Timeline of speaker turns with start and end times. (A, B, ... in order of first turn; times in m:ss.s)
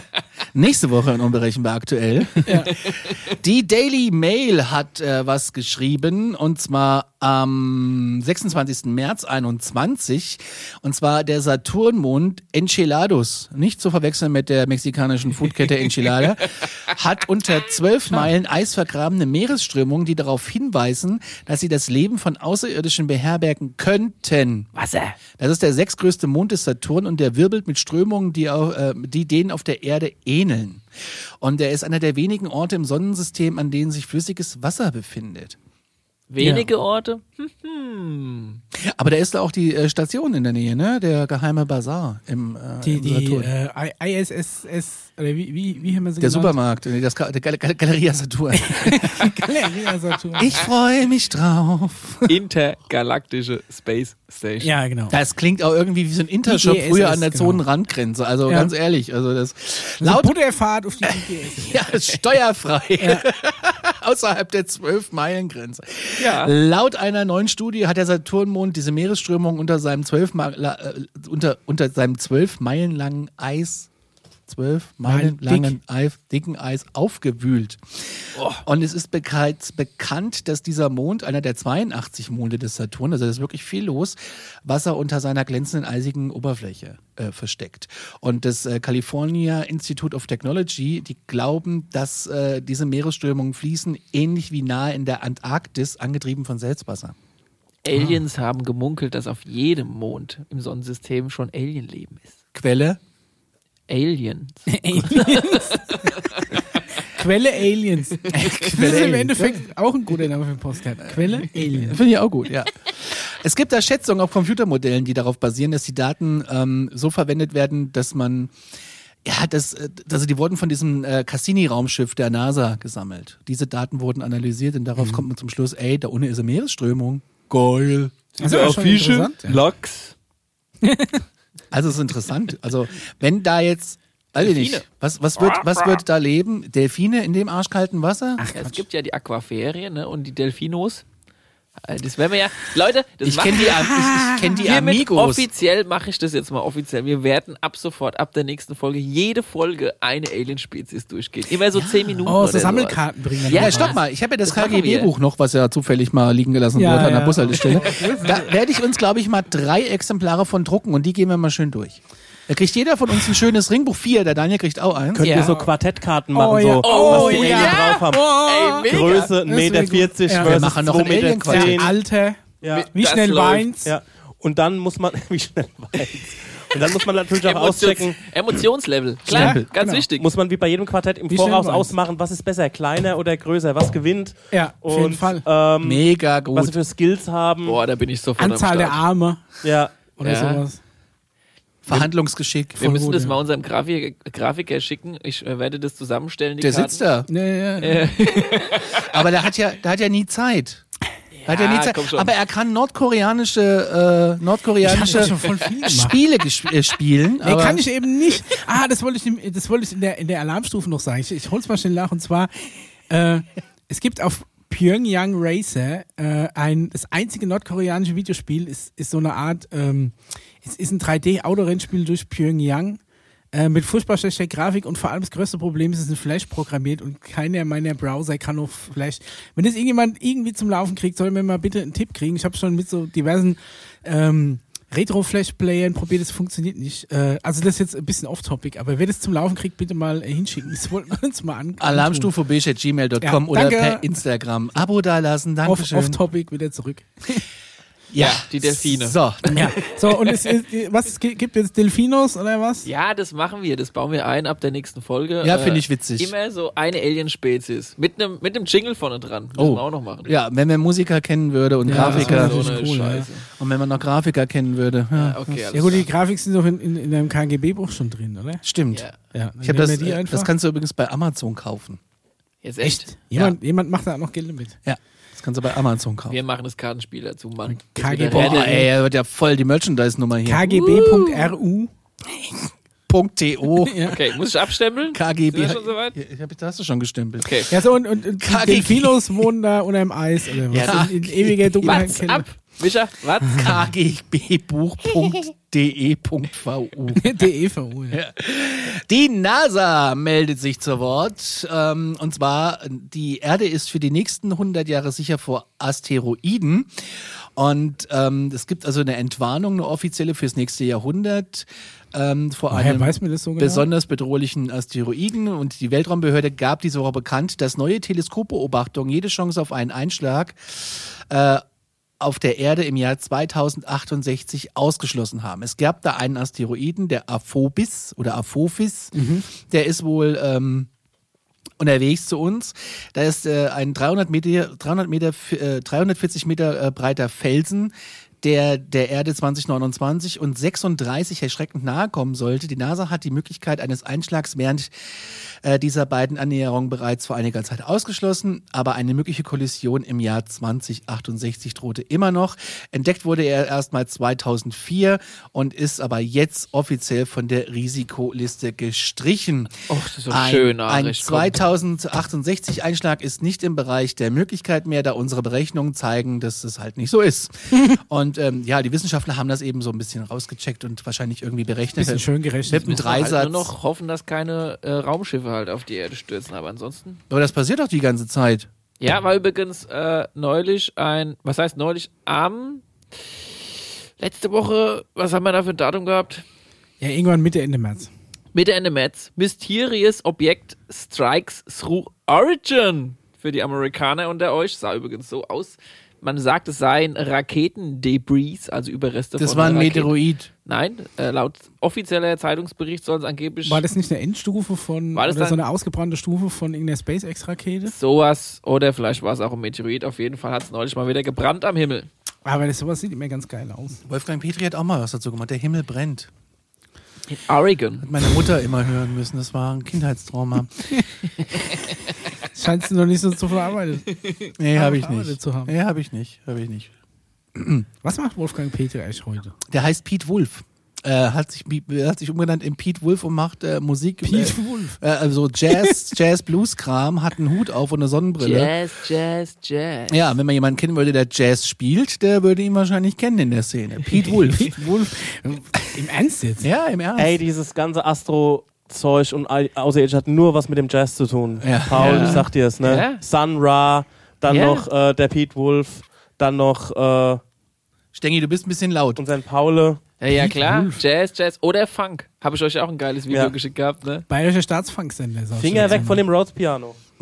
0:00.5-0:24.7 A
0:02.5-0:02.7 B
0:24.8-0:25.2 C
0:25.4-0:35.6 A
0:36.3-0:38.6 C
0:36.4-0:36.7 B
0:38.7-0:43.5 A
0:42.8-0:46.6 B
0:46.2-0:49.4 A
0:48.6-0:50.6 B
0:50.4-0:52.3 A
0:52.3-0:54.7 C
0:54.6-0:55.2 B
0:55.1-1:00.3 A
0:56.5-0:57.6 B
0:58.5-0:58.7 B
1:00.0-1:01.8 B
1:01.1-1:13.9 A
1:03.0-1:03.3 B
1:06.2-1:06.5 C
1:14.5-1:37.2 A
1:15.0-1:15.8 B
1:18.4-1:18.6 C
1:37.8-1:42.4 C
1:37.9-1:38.2 B
1:42.5-1:43.0 A
1:43.9-1:46.6 C
1:44.7-1:46.2 B
1:47.0-1:52.0 B
1:48.3-1:49.6 A
1:51.5-1:58.5 A
1:59.2-2:08.3 A
2:05.0-2:05.2 B
2:08.4-2:10.1 C
2:08.4-2:09.6 B
2:10.8-2:11.2 B
2:11.7-2:18.4 A
2:14.4-2:14.8 C
2:15.4-2:16.0 C
2:18.4-2:18.8 B
2:18.5-2:21.0 C
2:21.8-2:23.9 C
2:23.2-2:25.5 A
2:23.8-2:24.6 B
2:24.6-2:35.1 C
2:31.7-2:32.2 A
2:32.3-2:34.0 B
2:33.5-2:45.5 A
2:36.8-2:38.4 B
2:45.2-2:51.9 D
2:45.2-2:45.6 B
2:45.2-2:45.6 C
2:46.3-2:48.9 B
2:46.8-2:49.3 C
2:49.4-2:50.7 B
2:50.4-2:51.8 A
2:51.4-2:52.4 B
2:52.6-2:52.9 D
2:52.6-2:53.7 C
2:52.9-2:53.9 B
2:53.8-2:58.2 D
2:57.4-3:00.3 C
2:59.3-2:59.7 A
2:59.3-3:00.0 B
3:00.2-3:07.8 D
3:01.3-3:01.9 B
3:04.5-3:05.4 B
3:05.8-3:06.7 A
3:07.6-3:09.0 C
3:08.4-3:10.8 B
3:09.6-3:09.9 D
3:10.2-3:10.6 C
3:11.8-3:12.8 A
3:12.8-3:13.4 B
3:12.8-3:17.0 C
3:16.6-3:17.3 A
3:17.3-3:18.2 B
3:17.8-3:19.3 C
3:19.0-3:20.8 A
3:21.4-3:22.3 C
3:21.5-3:27.8 A
3:24.8-3:26.2 B
3:27.4-3:32.6 B
3:33.1-3:43.0 B
3:43.5-4:02.3 B
4:01.8-4:06.2 A
4:03.2-4:04.1 B
4:05.6-4:07.4 B
4:08.1-4:09.7 A
4:08.2-4:10.5 C
4:09.5-4:12.9 B
4:12.8-4:20.3 C
4:15.4-4:16.3 A
4:19.6-4:22.8 A
4:21.9-4:23.3 B
4:21.9-4:23.5 C
4:23.6-4:25.4 A
4:25.1-4:26.1 C
4:25.7-4:28.6 B
4:28.6-4:29.1 A
4:29.3-4:30.5 B
4:29.6-4:32.0 A
4:32.6-4:33.4 C
4:32.8-4:34.8 B
4:34.8-4:36.4 A
4:36.3-4:38.8 C
4:37.7-4:38.9 B
4:38.3-4:40.8 A
4:40.4-4:41.9 B
4:40.7-4:41.5 C
4:42.3-4:44.2 A
4:43.8-4:44.2 B
4:44.1-4:46.2 C
4:45.1-4:47.7 A
4:47.4-4:47.7 C
4:47.7-4:52.4 B
4:48.4-4:49.5 A
4:50.7-4:51.1 C
4:50.7-4:52.0 A
4:51.8-4:53.8 C
4:53.5-4:57.3 A
4:57.1-4:58.2 B
4:58.1-5:21.6 A
5:12.7-5:13.9 B
5:22.2-5:30.9 A
5:29.1-5:29.5 B
5:31.8-5:44.9 A
5:45.6-5:59.8 A
5:59.9-6:01.6 C
6:00.3-6:13.7 A
6:07.7-6:08.0 B
6:12.0-6:13.0 B
6:12.8-6:17.2 C
6:17.3-6:18.7 A
6:19.0-6:22.8 C
6:24.2-6:26.4 C
6:27.0-6:28.1 B
6:28.5-6:40.1 C
6:39.4-6:40.5 A
6:40.6-6:43.8 C
6:43.6-6:47.9 B
6:45.2-6:45.6 C
6:47.9-6:52.1 C
6:52.4-6:54.0 B
6:54.0-6:56.3 A
6:57.3-6:58.1 C
6:58.0-7:01.0 A
7:02.5-7:04.1 B
7:04.6-7:06.9 A
7:04.7-7:05.7 B
7:07.6-7:07.8 A
7:08.0-7:09.6 B
7:09.7-7:18.7 A
7:14.2-7:15.0 B
7:18.4-7:20.3 C
7:20.1-7:24.8 A
7:24.5-7:26.7 B
7:26.6-7:27.4 A
7:27.2-7:37.4 D
7:31.6-7:32.5 A
7:32.0-7:33.2 C
7:34.5-7:34.9 C
7:38.1-7:39.2 A
7:39.2-7:40.0 D
7:40.2-7:44.2 C
7:40.3-7:41.0 B
7:44.3-7:46.2 B
7:45.6-7:47.0 D